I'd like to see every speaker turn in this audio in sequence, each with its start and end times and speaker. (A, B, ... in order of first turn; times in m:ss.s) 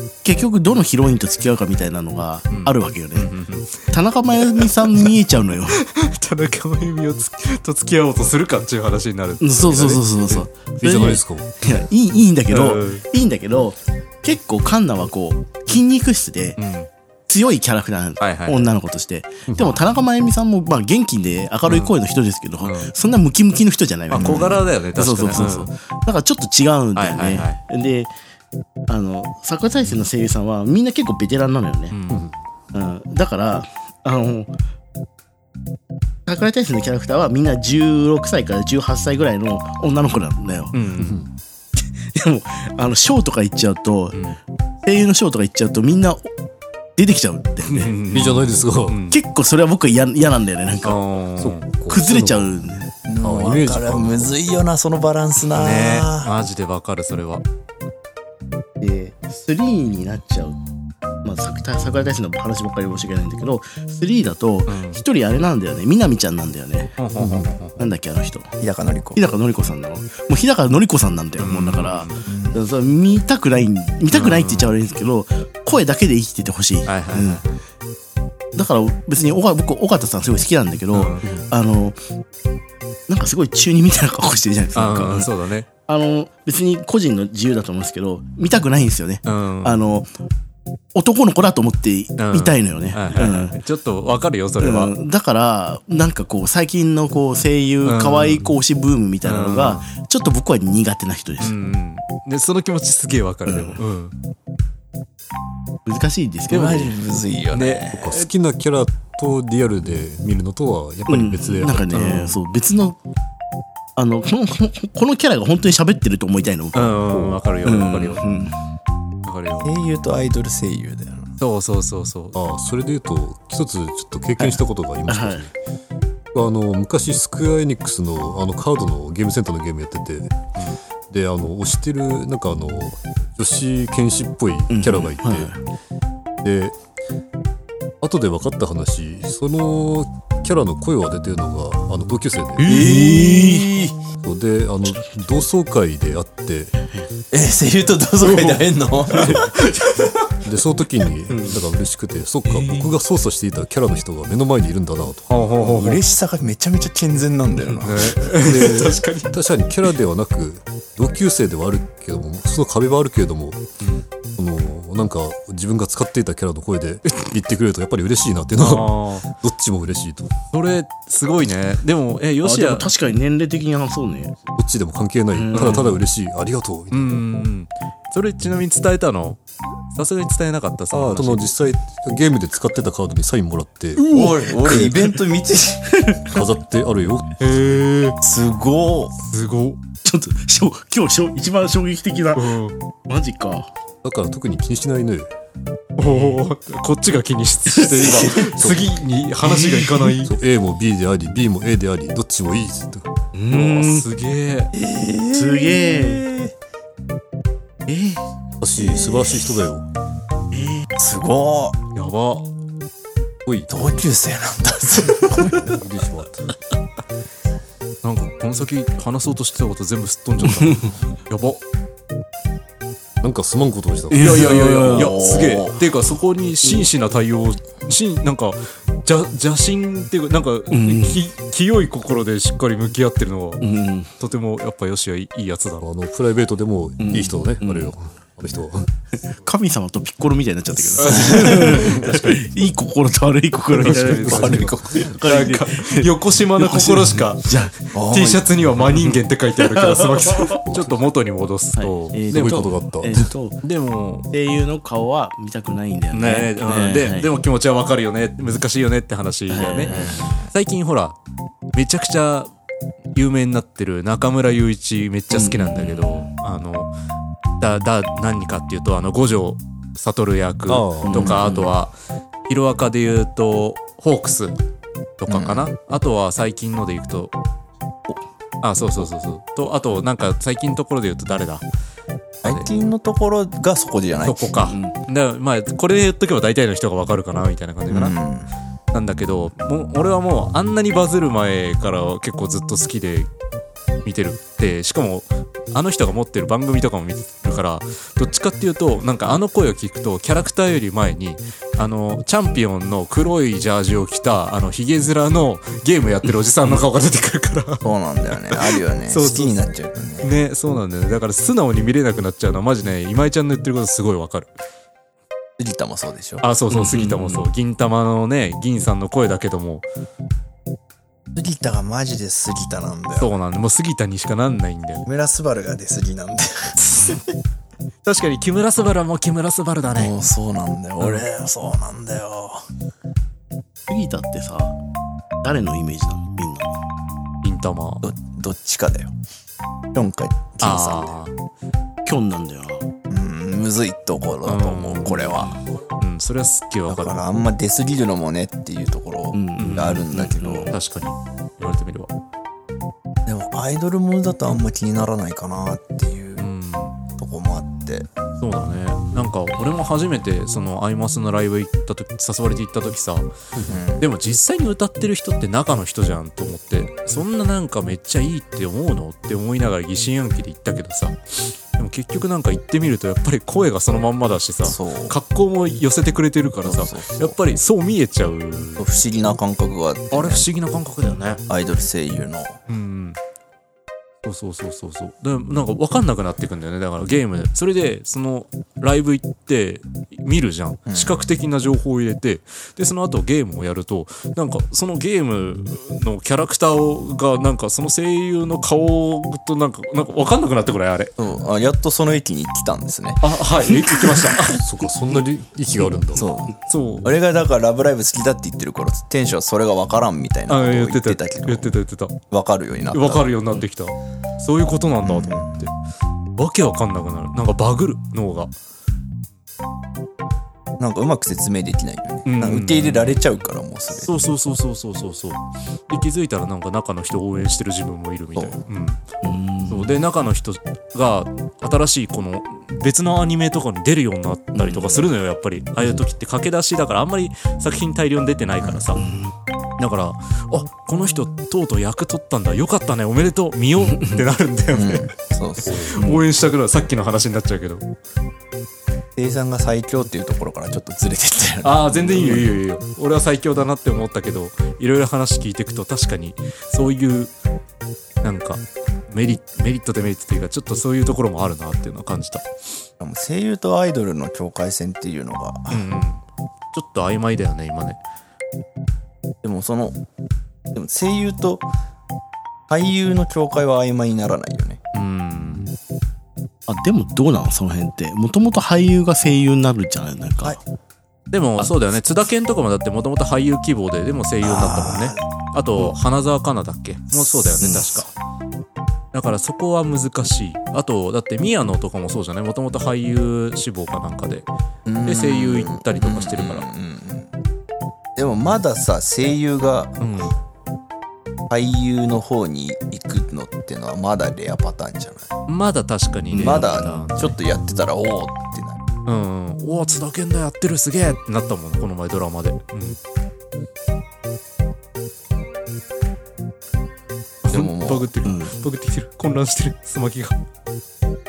0:00.2-0:03.3 A
0:02.5-0:03.9 B
0:03.9-0:05.8 A
0:04.4-0:05.1 B
0:05.7-0:10.4 B
0:09.4-0:16.6 A
0:10.8-0:11.5 C
0:12.5-0:13.0 B
0:16.6-0:16.9 B
0:17.3-0:28.1 A
0:18.2-0:18.7 B
0:19.5-0:19.8 C
0:21.6-0:21.9 B
0:22.6-0:22.9 B
0:24.1-0:25.7 B
0:24.1-0:24.6 D
0:27.0-0:27.6 B
0:28.9-0:32.0 A
0:31.9-0:32.2 B
0:32.1-0:32.4 C
0:32.7-0:34.5 A
0:36.2-0:40.7 A
0:40.7-0:41.3 B
0:41.0-0:41.3 C
0:41.8-0:44.2 A
0:44.8-0:46.3 A
0:47.0-0:47.9 A
0:47.6-0:49.2 B
0:48.1-0:49.0 C
0:49.1-0:51.0 A
0:50.8-0:51.6 B
0:51.4-0:52.5 C
0:51.9-0:52.9 A
0:53.1-0:56.3 D
0:53.2-0:54.4 C
0:55.5-0:57.4 B
0:58.8-1:00.6 A
1:01.2-1:07.0 A
1:04.7-1:05.0 B
1:07.0-1:07.8 B
1:07.2-1:07.5 C
1:07.8-1:08.6 A
1:08.6-1:09.2 D
1:09.1-1:17.4 A
1:11.4-1:12.2 B
1:12.2-1:12.6 D
1:14.1-1:14.7 B
1:16.8-1:17.6 B
1:18.5-1:22.0 A
1:20.9-1:21.3 B
1:23.1-1:25.3 A
1:24.7-1:25.7 B
1:25.8-1:30.1 A
1:29.2-1:29.8 B
1:30.9-1:33.6 A
1:32.2-1:34.9 B
1:34.6-1:41.5 A
1:37.8-1:38.5 B
1:39.2-1:39.9 B
1:41.4-1:44.1 B
1:43.5-1:43.8 A
1:45.8-1:47.0 A
1:46.5-1:48.1 D
1:47.5-1:48.3 B
1:47.9-1:52.4 C
1:51.1-1:53.0 A
1:51.9-1:52.3 B
1:54.0-1:57.0 A
1:56.7-1:58.2 B
1:57.1-1:57.4 C
1:57.6-1:58.5 A
1:59.2-1:59.7 B
1:59.6-2:01.3 D
2:01.4-2:02.4 B
2:02.3-2:05.5 C
2:04.4-2:05.5 A
2:06.3-2:10.4 C
2:11.1-2:15.5 C
2:14.7-2:15.6 A
2:16.4-2:16.8 C
2:18.0-2:22.7 C
2:22.6-2:23.7 A
2:22.6-2:23.9 D
2:24.2-2:26.8 C
2:27.3-2:29.6 D
2:28.2-2:30.1 B
2:30.4-2:35.5 C
2:31.3-2:31.6 A
2:35.3-2:36.0 B
2:35.6-2:38.4 D
2:37.8-2:39.3 B
2:38.3-2:43.6 C
2:44.3-2:50.3 C
2:48.6-2:49.3 B
2:50.5-2:52.9 B
2:52.4-2:54.4 A
2:54.6-2:57.2 C
2:55.3-2:56.0 A
2:55.5-2:55.9 B
2:56.9-3:01.4 B
3:00.9-3:04.0 C
3:04.1-3:06.1 D
3:04.1-3:05.0 A
3:05.9-3:06.2 A
3:06.2-3:07.6 C
3:07.4-3:08.2 B
3:08.2-3:09.1 D
3:09.2-3:09.8 B
3:10.0-3:12.6 A
3:12.3-3:12.8 B
3:13.1-3:13.7 A
3:14.0-3:15.3 C
3:16.0-3:20.3 B
3:17.8-3:18.2 A
3:18.3-3:19.0 C
3:19.4-3:20.1 A
3:20.2-3:23.1 C
3:23.3-3:24.0 A
3:23.5-3:24.7 B
3:24.7-3:26.5 D
3:25.3-3:26.2 A
3:27.8-3:28.2 A
3:28.6-3:29.9 C
3:28.8-3:29.6 D
3:30.5-3:30.9 A
3:31.0-3:31.8 D
3:31.9-3:32.5 B
3:33.4-3:33.7 C
3:33.7-3:35.8 D
3:35.6-3:36.5 C
3:38.0-3:41.6 B
3:40.5-3:40.9 A
3:43.2-3:44.5 C
3:44.1-3:45.2 A
3:44.1-3:55.9 B
3:44.8-3:45.8 D
3:50.7-3:51.2 A
3:53.6-3:54.1 A
3:55.8-3:58.9 C
3:57.0-3:57.9 A
3:59.3-4:07.7 A
4:01.0-4:02.5 B
4:03.7-4:12.6 B
4:04.2-4:04.8 D
4:04.3-4:04.8 C
4:07.9-4:08.4 D
4:08.9-4:10.6 A
4:11.8-4:13.6 A
4:12.3-4:13.3 C
4:13.6-4:14.3 B
4:14.3-4:17.3 A
4:16.1-4:21.2 B
4:19.5-4:20.4 A
4:19.9-4:20.5 D
4:21.7-4:22.5 B
4:23.1-4:26.9 B
4:25.3-4:26.3 A
4:27.6-4:31.9 B
4:30.7-4:31.4 C
4:31.0-4:31.7 A
4:32.5-4:34.6 B
4:35.2-4:37.3 B
4:35.3-4:35.7 D
4:38.6-4:41.6 B
4:42.4-4:42.7 B
4:42.4-4:44.5 D
4:44.2-4:48.2 B
4:44.7-4:44.9 A
4:47.9-4:48.5 D
4:48.9-4:53.3 B
4:54.0-5:07.8 B
5:07.8-5:10.3 D
5:08.5-5:09.6 B
5:10.2-5:14.5 B
5:15.6-5:16.4 D
5:16.4-5:19.8 B
5:16.7-5:17.5 A
5:21.3-5:23.3 D
5:23.1-5:25.0 B
5:25.0-5:27.2 D
5:28.0-5:30.1 B
5:29.9-5:32.6 D
5:33.9-5:34.7 A
5:35.4-5:36.7 A
5:37.4-5:38.0 B
5:38.0-5:39.1 D
5:39.9-5:41.2 D
5:40.6-5:41.3 B
5:42.0-5:42.8 A
5:43.1-5:45.5 D
5:44.4-5:45.5 B
5:45.0-5:45.6 A
5:46.0-5:47.2 B
5:46.9-5:50.7 D
5:49.3-5:50.7 A
5:49.6-5:50.1 B
5:50.7-5:52.1 B
5:53.2-5:56.5 D
5:56.4-5:57.0 B
5:57.1-5:58.1 D
5:58.4-6:03.3 B
6:03.6-6:03.8 C
6:03.7-6:04.1 D
6:04.0-6:18.8 B
6:14.6-6:15.2 D
6:16.6-6:17.4 D
6:18.8-6:20.4 D
6:20.1-6:21.4 B
6:21.5-6:22.6 D
6:22.7-6:23.2 B
6:24.2-6:41.1 B
6:30.9-6:31.2 D
6:41.2-6:43.7 D
6:43.2-6:44.6 B
6:44.5-6:46.3 C
6:46.1-6:51.7 D
6:46.7-6:47.1 B
6:50.5-6:52.2 B
6:52.3-6:53.3 D
6:52.9-6:55.7 B
6:55.0-6:55.6 D
6:56.4-6:58.5 B
7:00.8-7:04.2 D
7:02.2-7:03.2 B
7:03.9-7:09.0 B
7:09.2-7:09.9 A
7:09.7-7:19.0 B
7:19.0-7:19.3 A
7:19.8-7:25.1 B
7:23.9-7:24.2 A
7:24.7-7:25.9 D
7:25.6-7:26.0 C
7:25.6-7:27.9 B
7:29.2-7:32.5 D
7:31.6-7:37.3 B
7:38.2-7:42.5 B
7:43.0-7:45.8 D
7:45.7-7:46.2 B
7:46.7-7:48.0 B
7:49.4-7:50.0 D
7:50.7-7:51.6 D
7:52.7-7:54.8 D
7:54.9-7:55.7 B
7:56.7-8:00.6 A
8:01.3-8:08.1 B
8:04.4-8:05.2 D
8:07.2-8:07.9 D
8:07.6-8:07.9 A
8:09.1-8:14.5 B
8:14.8-8:17.3 D
8:15.0-8:16.7 B
8:18.2-8:20.2 D
8:20.0-8:20.4 B
8:21.5-8:25.3 D
8:25.5-8:27.4 B
8:26.3-8:28.8 D
8:29.0-8:33.0 B
8:37.4-8:40.4 B
8:37.5-8:38.1 D
8:38.2-8:38.5 A